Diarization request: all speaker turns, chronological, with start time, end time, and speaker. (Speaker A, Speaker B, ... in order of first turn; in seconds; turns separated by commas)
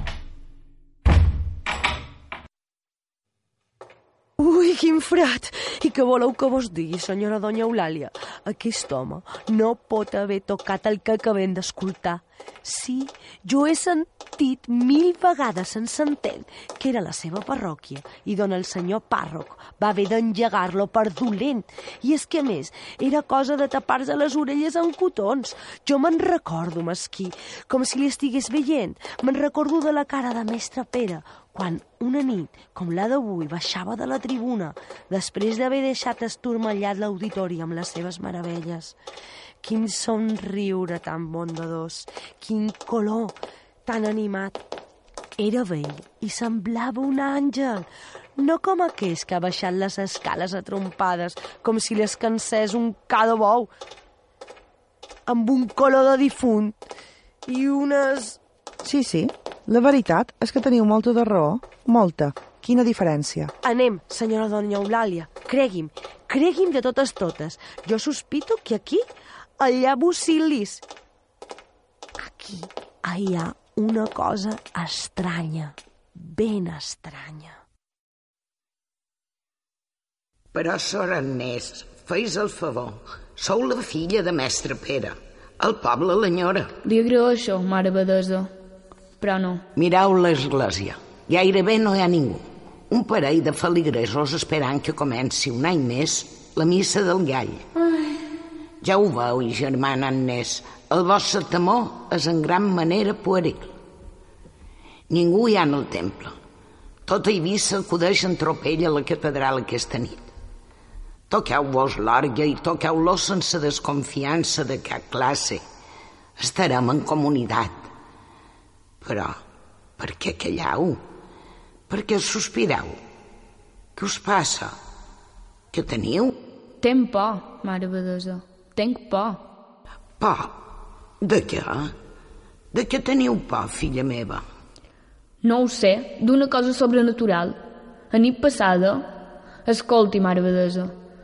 Speaker A: 4.4-39.0, Speaker A: 39.6-44.6, Speaker A: 45.4-53.7, Speaker A: 55.3-56.8, Speaker A: 57.5-58.4, Speaker B: 58.8-63.5, Speaker A: 63.6-69.0, Speaker A: 69.6-70.8, Speaker A: 72.2-77.6, Speaker C: 80.5-86.7, Speaker D: 86.8-88.5, Speaker D: 89.2-89.6, Speaker C: 89.7-97.6, Speaker C: 98.8-103.7, Speaker C: 105.1-106.3, Speaker C: 107.0-110.3, Speaker C: 111.3-115.6, Speaker C: 116.4-117.9, Speaker C: 119.0-119.4, Speaker C: 120.0-121.0, Speaker C: 121.9-123.0, Speaker C: 124.0-124.8, Speaker C: 125.7-126.3, Speaker D: 126.8-129.4, Speaker C: 130.2-130.6, Speaker C: 131.2-131.9, Speaker C: 132.7-134.4, Speaker D: 135.4-137.6, Speaker D: 138.1-139.1, Speaker D: 139.6-140.9